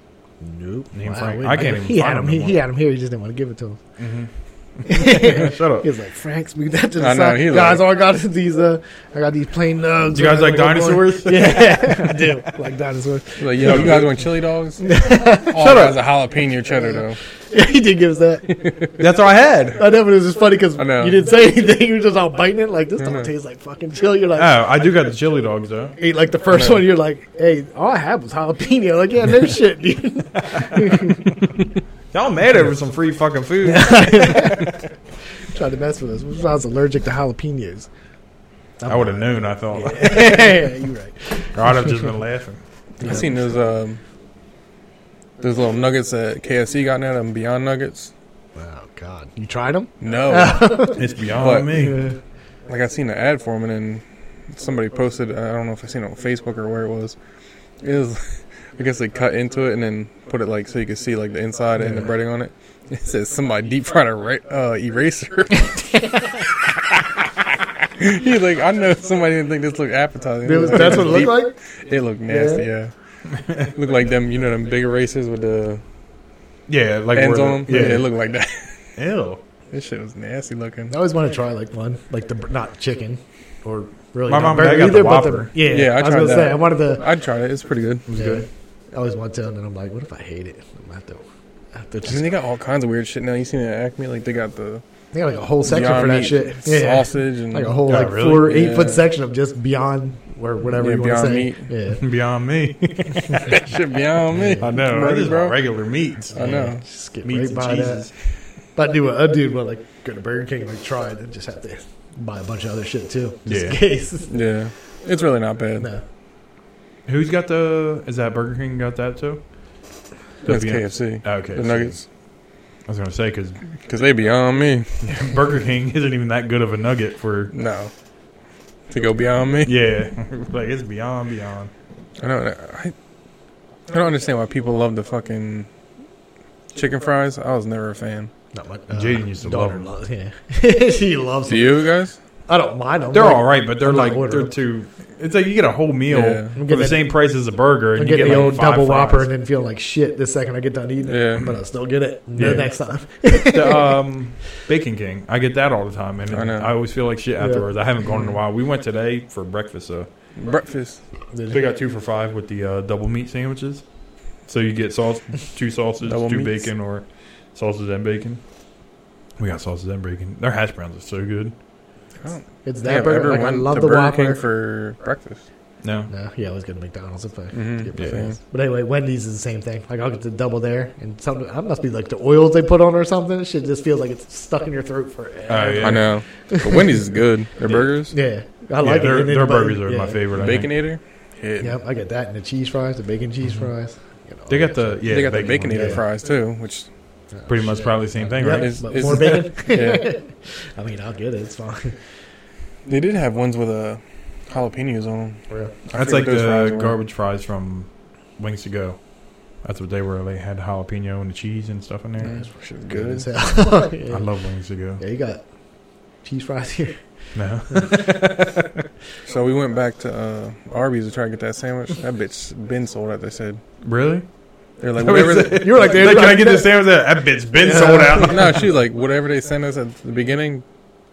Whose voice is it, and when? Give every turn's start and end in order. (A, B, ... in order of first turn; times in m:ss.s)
0:00.4-0:03.8 A
0:00.9-0:02.6 B
0:04.0-0:05.9 B
0:04.9-0:14.1 A
0:07.0-0:07.9 C
0:10.1-0:12.3 B
0:13.4-0:17.2 C
0:13.6-0:14.1 B
0:14.8-0:15.6 A
0:15.6-0:16.0 B
0:16.9-0:18.9 A
0:19.0-0:19.8 B
0:19.8-0:24.6 A
0:20.8-0:21.2 C
0:23.0-0:23.3 C
0:24.4-0:26.0 B
0:26.0-0:31.4 A
0:26.5-0:26.8 C
0:30.8-0:31.1 B
0:32.1-0:34.6 B
0:33.6-0:34.7 A
0:35.5-0:37.9 A
0:38.8-0:42.1 A
0:38.9-0:40.5 B
0:41.5-0:43.2 B
0:43.0-0:43.3 A
0:43.0-0:44.0 C
0:45.4-0:48.1 C
0:48.6-0:52.2 A
0:50.0-0:52.0 C
0:51.0-0:52.0 B
0:52.7-0:57.2 C
0:57.8-1:06.5 C
1:01.8-1:02.1 A
1:08.0-1:12.9 C
1:10.4-1:11.6 A
1:12.3-1:12.7 A
1:13.3-1:13.6 B
1:13.5-1:15.8 C
1:16.7-1:18.1 B
1:17.1-1:18.9 C
1:17.7-1:18.0 A
1:19.0-1:19.4 B
1:19.7-1:21.0 C
1:20.9-1:27.0 A
1:24.3-1:25.5 B
1:25.6-1:28.1 C
1:28.1-1:28.4 B
1:28.2-1:32.3 A
1:32.1-1:34.8 C
1:35.1-1:42.1 A
1:35.6-1:39.1 C
1:37.9-1:38.5 B
1:40.8-1:41.7 C
1:42.0-1:43.6 B
1:43.4-1:45.6 C
1:44.4-1:44.7 A
1:44.6-1:46.7 B
1:46.3-1:46.8 C
1:46.4-1:48.1 A
1:47.2-1:48.1 B
1:48.8-1:54.3 A
1:53.5-1:53.8 B
1:54.3-1:55.9 C
1:55.8-1:56.0 A
1:57.1-1:59.4 B
2:00.4-2:02.0 C
2:00.4-2:02.0 B
2:02.8-2:03.6 B
2:03.8-2:05.1 C
2:05.0-2:07.5 B
2:07.5-2:07.9 C
2:08.9-2:09.8 C
2:09.6-2:11.7 B
2:12.2-2:13.0 C
2:13.9-2:15.7 C
2:16.7-2:18.3 C
2:18.5-2:21.9 A
2:18.9-2:19.9 B
2:21.5-2:22.2 C
2:22.5-2:24.6 A
2:23.1-2:29.3 B
2:26.1-2:26.6 C
2:26.6-2:27.2 A
2:28.0-2:34.0 A
2:28.2-2:28.5 C
2:31.1-2:31.5 C
2:32.4-2:32.7 B
2:33.4-2:40.1 B
2:36.3-2:36.7 C
2:37.4-2:37.7 A
2:40.4-2:41.0 C
2:41.3-2:41.6 A
2:41.5-2:43.8 B
2:44.4-2:48.4 B
2:46.0-2:46.7 C
2:49.4-2:51.6 B
2:52.2-2:55.4 C
2:52.6-2:54.4 A
2:55.8-2:56.1 B
2:56.1-3:06.9 A
2:57.5-2:58.4 C
2:58.0-2:58.3 B
3:05.5-3:06.1 B
3:05.8-3:08.2 C
3:07.6-3:08.0 B
3:08.1-3:10.2 A
3:08.8-3:10.7 B
3:10.3-3:11.7 C
3:11.6-3:16.0 A
3:14.5-3:16.0 B
3:15.1-3:16.9 C
3:17.3-3:22.0 A
3:17.5-3:19.4 B
3:18.4-3:20.1 C
3:22.9-3:27.0 C
3:25.9-3:32.4 B
3:32.2-3:33.7 C
3:32.4-3:34.3 A
3:34.1-3:35.0 B
3:35.0-3:35.5 A
3:36.2-3:37.0 A
3:37.4-3:38.9 B
3:37.7-3:38.0 A
3:39.2-3:43.6 C
3:43.8-3:44.3 B
3:44.8-3:45.9 C
3:45.0-3:48.6 B
3:45.5-3:46.9 A
3:47.6-3:48.5 A
3:48.2-3:50.6 C